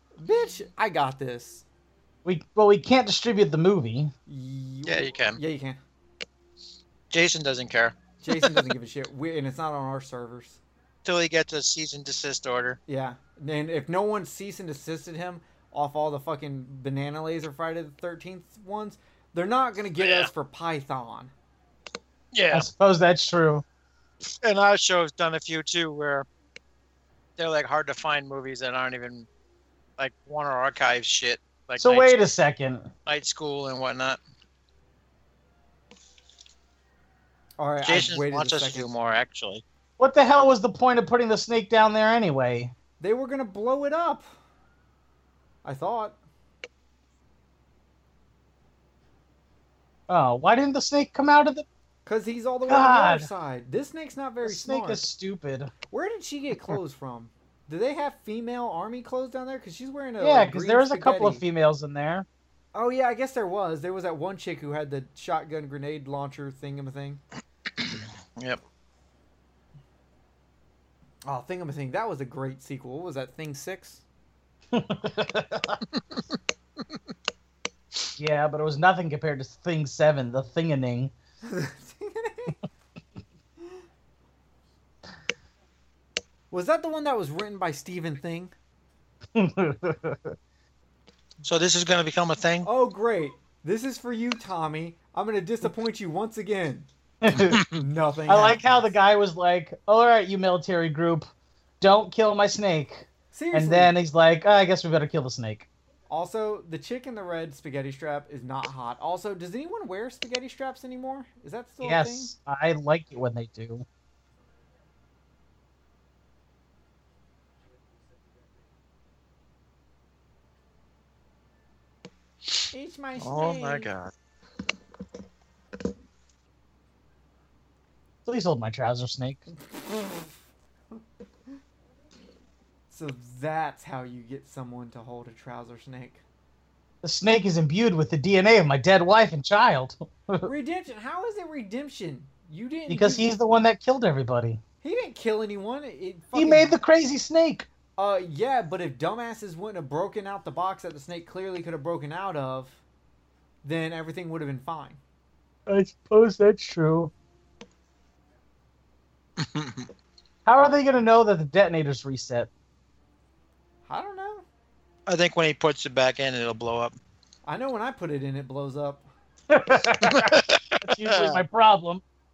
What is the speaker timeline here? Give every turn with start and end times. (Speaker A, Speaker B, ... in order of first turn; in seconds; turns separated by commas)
Speaker A: 0.2-1.6, Speaker B: 2.2-4.1, Speaker A: 4.3-5.8, Speaker C: 4.8-5.4, Speaker C: 7.1-8.6, Speaker A: 8.2-10.6, Speaker C: 11.1-12.8, Speaker A: 12.9-21.3, Speaker C: 20.0-20.3, Speaker C: 22.3-22.7, Speaker B: 22.5-23.6, Speaker C: 24.4-26.3, Speaker C: 27.4-29.3, Speaker C: 30.0-32.2, Speaker B: 31.8-32.9, Speaker C: 33.1-34.2, Speaker A: 37.6-38.9, Speaker C: 37.8-39.6, Speaker B: 40.0-42.7, Speaker A: 43.0-44.3, Speaker A: 45.6-46.2, Speaker B: 50.1-51.7, Speaker A: 52.1-55.1, Speaker B: 52.7-53.3, Speaker B: 54.4-55.7, Speaker A: 55.9-61.4, Speaker B: 60.2-62.3, Speaker A: 62.7-67.2, Speaker C: 67.8-68.6, Speaker A: 71.2-74.0, Speaker B: 74.7-75.8, Speaker B: 78.2-81.1, Speaker A: 81.4-82.6, Speaker A: 86.5-88.5, Speaker B: 89.3-90.4, Speaker C: 91.4-92.7, Speaker A: 92.7-96.9, Speaker B: 97.2-97.6, Speaker A: 97.6-98.9, Speaker B: 98.3-101.3, Speaker B: 101.8-105.7, Speaker A: 103.3-103.9, Speaker A: 106.1-112.3, Speaker B: 111.8-113.9, Speaker A: 122.7-123.9, Speaker C: 123.2-124.1, Speaker B: 128.2-129.5, Speaker A: 129.7-130.3, Speaker A: 132.9-136.2, Speaker B: 137.0-140.5, Speaker A: 140.4-143.3, Speaker B: 142.9-144.6, Speaker A: 144.8-146.8, Speaker B: 146.3-147.7, Speaker A: 148.0-152.8, Speaker A: 153.6-155.0, Speaker B: 155.7-157.1, Speaker C: 159.4-159.9, Speaker B: 160.5-162.5, Speaker A: 163.9-164.4, Speaker C: 165.1-166.9, Speaker A: 167.4-169.1, Speaker B: 169.5-172.0, Speaker C: 170.0-171.4